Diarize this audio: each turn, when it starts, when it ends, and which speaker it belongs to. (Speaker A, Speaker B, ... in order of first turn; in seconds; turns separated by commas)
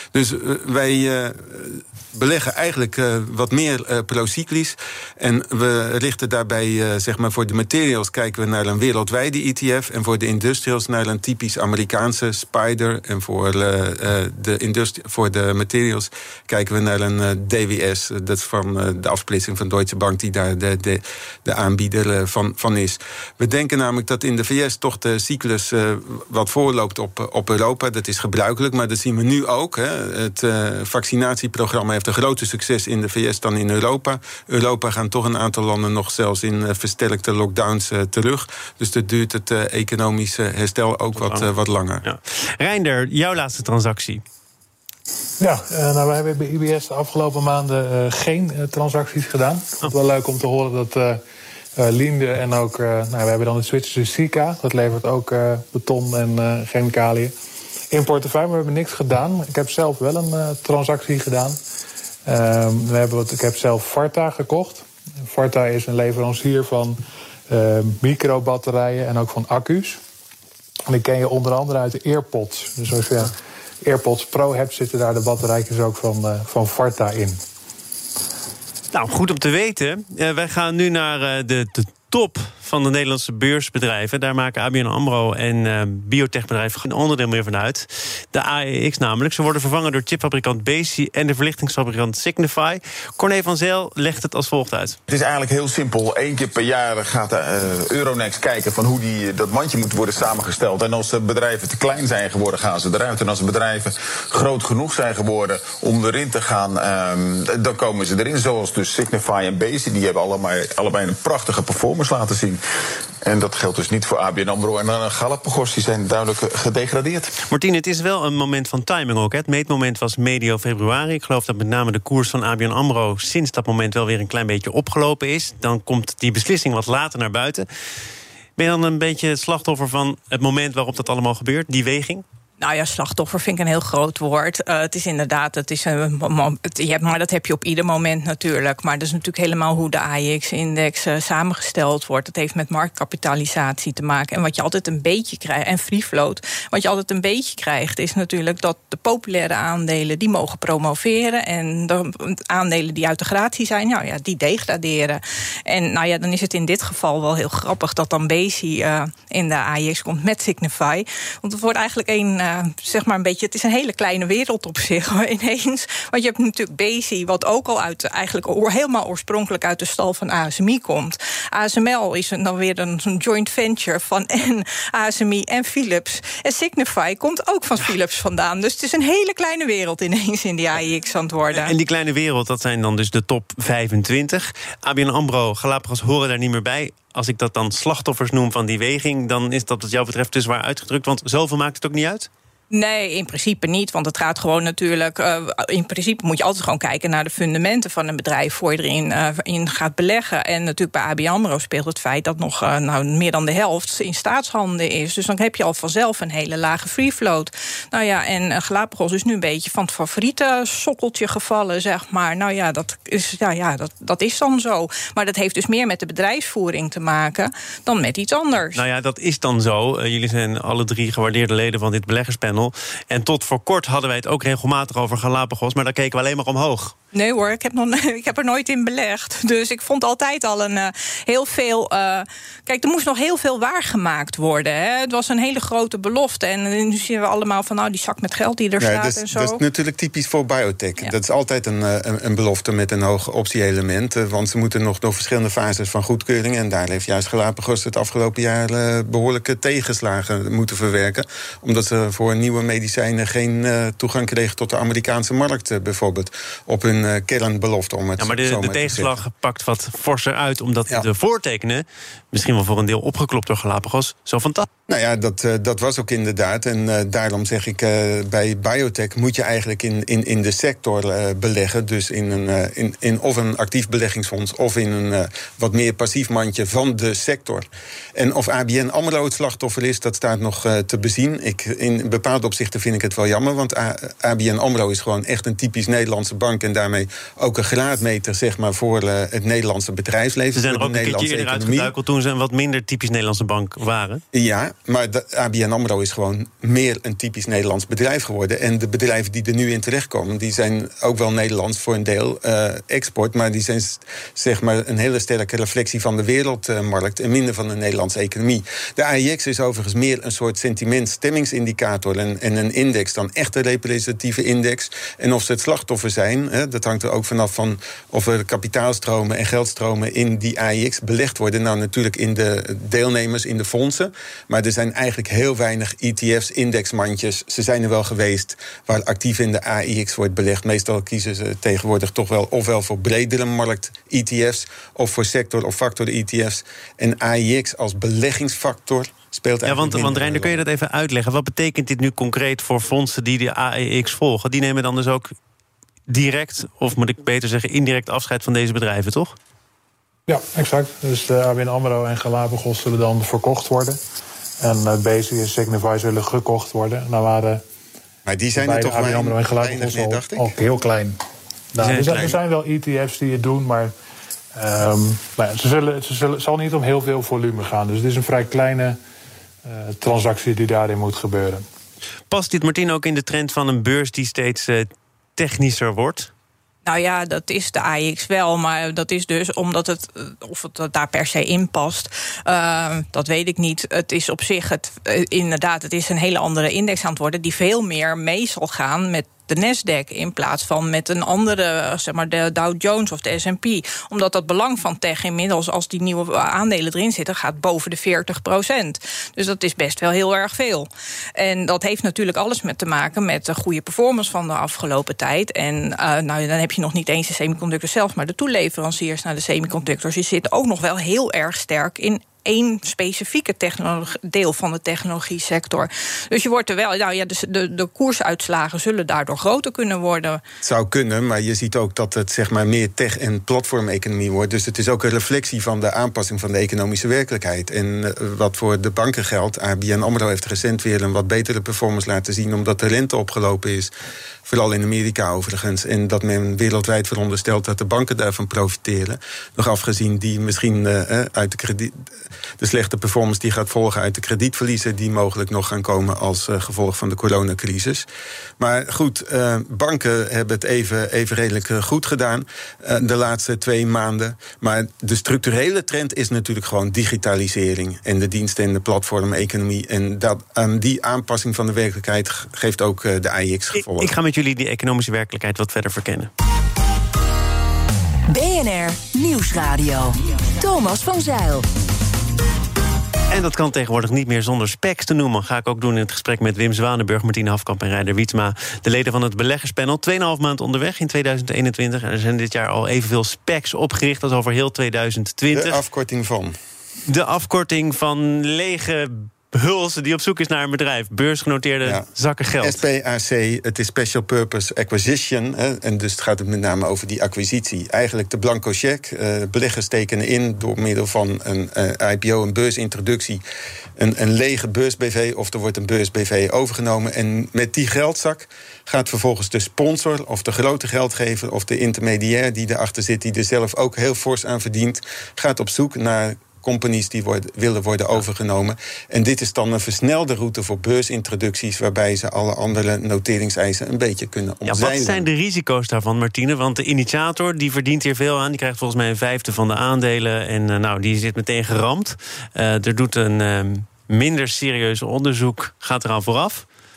Speaker A: 0.1-42.0, Speaker B: 41.2-41.5, Speaker B: 42.0-44.2, Speaker C: 45.4-51.2, Speaker C: 51.8-57.3, Speaker C: 57.9-61.6, Speaker C: 62.3-67.0, Speaker C: 67.5-70.0, Speaker C: 70.9-73.3, Speaker C: 73.8-77.4, Speaker B: 78.9-95.0, Speaker D: 95.1-112.6, Speaker D: 113.2-117.4, Speaker B: 117.5-127.7, Speaker B: 128.6-132.2, Speaker E: 132.6-181.7, Speaker B: 181.5-192.3, Speaker E: 192.7-218.8, Speaker B: 218.8-226.9, Speaker E: 227.1-239.6, Speaker A: 238.8-259.2, Speaker B: 258.2-264.7, Speaker A: 264.9-291.9, Speaker B: 290.6-294.2, Speaker A: 294.3-340.6, Speaker B: 339.7-345.3, Speaker B: 346.1-349.4, Speaker C: 350.3-354.0, Speaker C: 354.6-357.6, Speaker A: 358.3-360.5, Speaker C: 358.6-361.2, Speaker C: 361.7-363.9, Speaker B: 361.8-362.4, Speaker C: 364.6-369.0, Speaker C: 369.7-371.6, Speaker B: 372.3-376.3, Speaker E: 376.9-420.4, Speaker A: 420.6-433.9, Speaker A: 434.5-448.1, Speaker A: 448.6-464.1, Speaker B: 463.8-466.3, Speaker F: 468.3-471.7, Speaker B: 473.3-485.8, Speaker A: 485.5-486.6, Speaker B: 487.1-492.8, Speaker A: 492.6-503.4, Speaker A: 504.0-525.3, Speaker B: 524.7-536.6